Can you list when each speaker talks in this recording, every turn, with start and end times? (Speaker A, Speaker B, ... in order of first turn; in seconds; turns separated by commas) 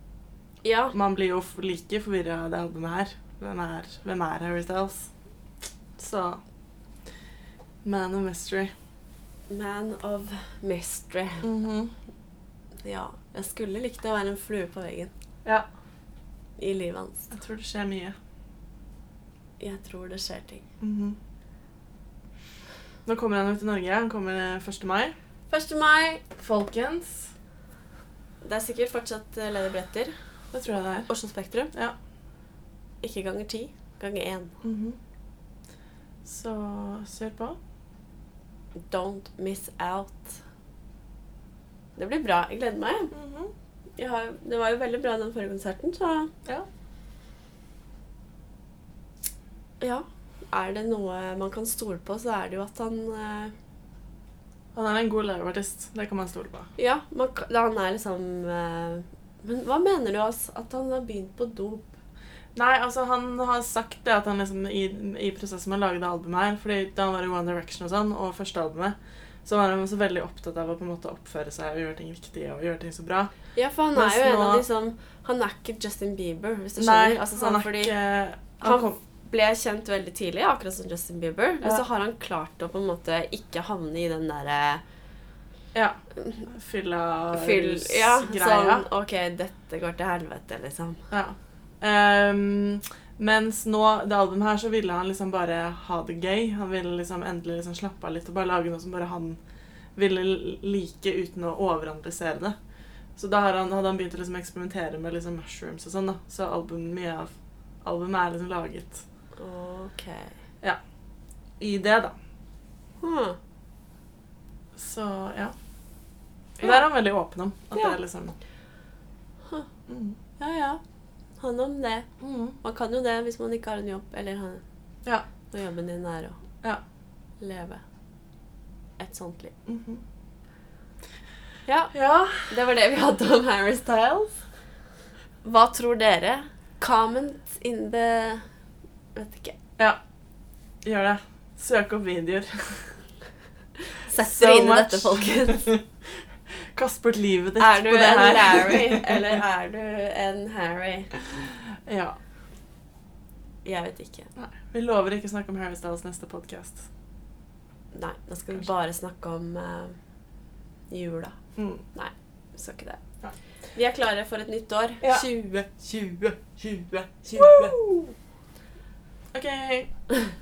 Speaker A: 0.6-0.9, Speaker B: 0.9-5.1, Speaker B: 6.0-6.4, Speaker B: 7.8-8.7, Speaker A: 9.5-11.5, Speaker B: 11.4-11.9, Speaker A: 12.8-15.1, Speaker A: 16.6-17.3, Speaker B: 17.3-18.1, Speaker A: 19.6-20.6, Speaker B: 20.8-21.2, Speaker B: 23.1-25.1, Speaker A: 25.5-26.2, Speaker B: 26.4-27.3, Speaker A: 28.4-30.1, Speaker B: 30.5-31.1, Speaker A: 31.1-31.7, Speaker A: 33.0-34.5, Speaker B: 34.6-35.0, Speaker B: 36.2-37.6, Speaker A: 38.9-40.4, Speaker A: 42.0-43.1, Speaker B: 43.1-43.5, Speaker A: 44.0-46.3, Speaker A: 49.8-53.5, Speaker B: 54.7-56.7, Speaker A: 56.8-61.9, Speaker B: 62.5-73.3, Speaker A: 73.5-77.9, Speaker B: 73.9-74.6, Speaker B: 76.8-79.0, Speaker A: 78.6-84.8, Speaker B: 85.7-88.9, Speaker A: 87.3-91.0, Speaker B: 91.1-99.4, Speaker B: 100.0-102.5, Speaker B: 103.2-107.3, Speaker B: 107.8-109.0, Speaker A: 109.4-110.3, Speaker B: 111.6-112.1, Speaker A: 113.0-113.4, Speaker B: 114.8-115.5, Speaker B: 116.6-118.3, Speaker B: 119.9-120.2, Speaker A: 120.4-120.8, Speaker A: 121.4-122.1, Speaker B: 122.2-122.6, Speaker A: 122.6-124.6, Speaker A: 125.5-126.4, Speaker A: 127.4-127.8, Speaker A: 129.0-129.5, Speaker B: 129.7-130.0, Speaker A: 131.7-131.9, Speaker B: 131.9-132.5, Speaker A: 132.4-134.4, Speaker A: 135.4-138.4, Speaker A: 139.2-139.6, Speaker B: 140.8-142.9, Speaker A: 144.0-145.7, Speaker B: 144.1-145.8, Speaker B: 146.7-149.2, Speaker A: 147.6-151.1, Speaker B: 151.3-152.2, Speaker A: 153.6-154.3, Speaker B: 154.4-156.8, Speaker A: 157.9-160.0, Speaker A: 160.9-161.3, Speaker B: 161.6-161.8, Speaker A: 161.9-163.0, Speaker A: 163.7-167.8, Speaker B: 167.4-168.1, Speaker B: 169.3-169.9